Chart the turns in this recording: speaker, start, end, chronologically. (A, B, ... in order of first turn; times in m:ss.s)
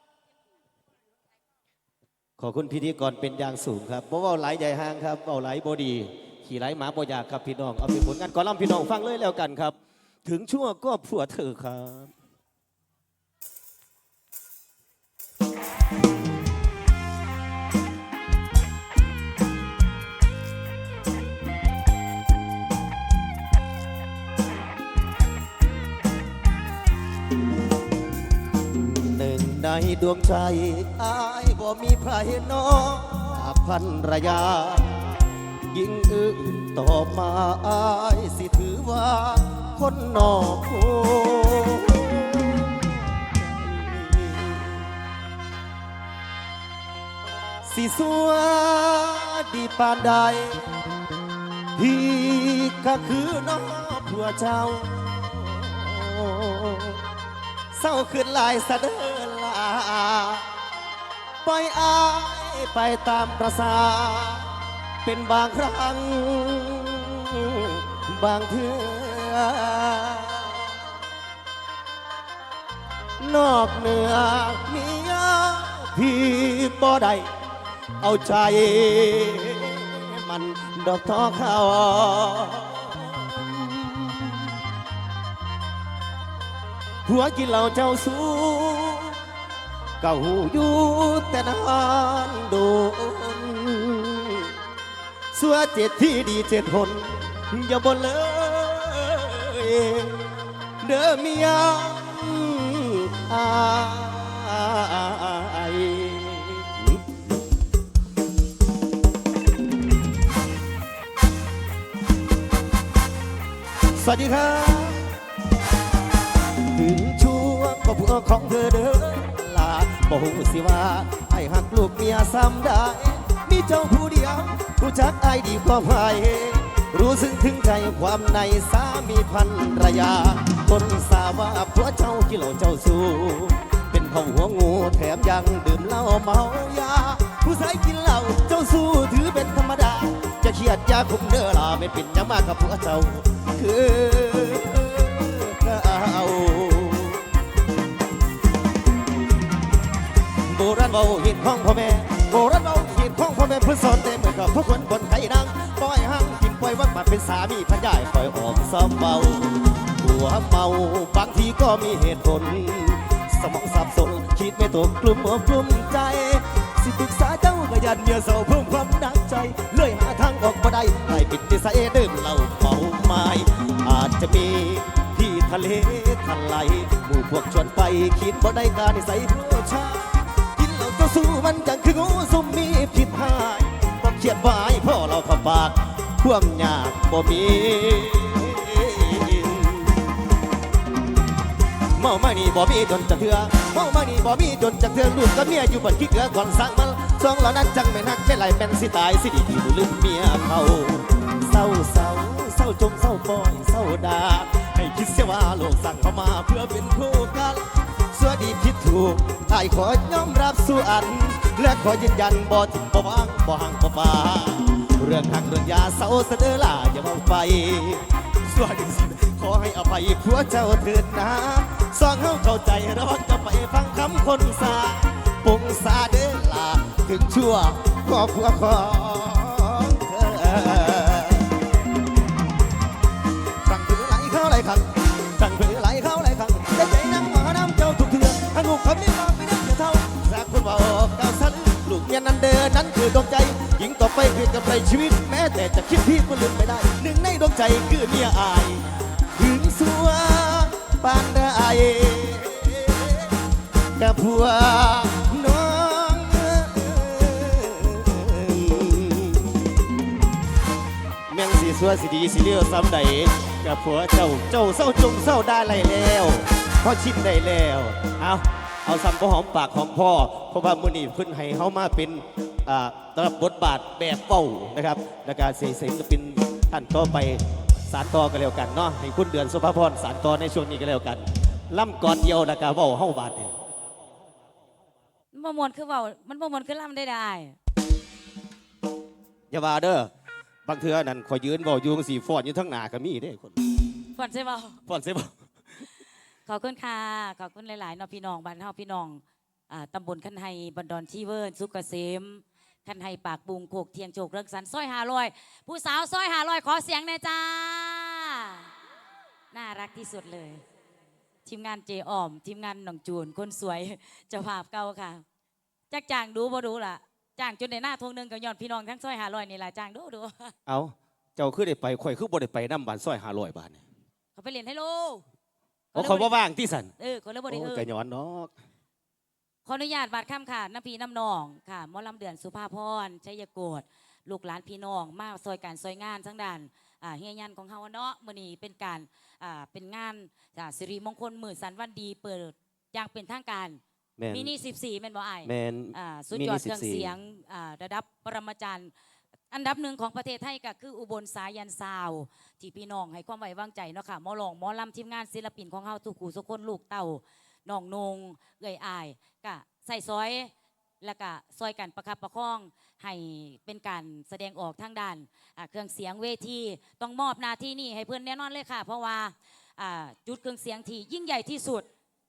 0:02.4-0:12.1 A
0:28.8-0:44.8 A
0:47.6-0:50.6 A
0:51.8-0:57.0 A
0:57.7-1:00.4 A
1:01.4-1:10.8 A
1:13.2-1:17.3 A
1:18.0-1:24.5 A
1:27.0-1:29.2 A
1:30.0-1:34.5 A
1:35.3-1:40.3 A
1:40.8-1:47.0 A
1:54.0-1:55.1 A
1:56.6-2:27.2 A
2:30.5-3:10.0 A
3:12.0-3:51.5 A
3:53.6-4:13.3 A
4:14.0-4:19.7 A
4:21.3-4:43.5 A
4:45.3-4:47.6 B
4:49.5-4:50.1 A
4:50.6-4:53.6 A
4:54.2-4:54.8 B
4:54.8-4:55.3 A
4:56.4-5:08.7 B
5:09.5-5:10.6 B
5:11.4-5:15.2 B
5:15.9-5:20.5 B
5:20.6-5:23.8 A
5:24.4-5:25.2 B
5:25.9-5:26.4 B
5:25.9-5:26.9 A
5:27.0-5:27.8 B
5:27.5-5:28.5 A
5:29.6-5:43.8 B
5:44.2-5:44.5 A
5:44.3-5:48.9 B
5:45.4-5:47.1 A
5:49.5-6:11.8 B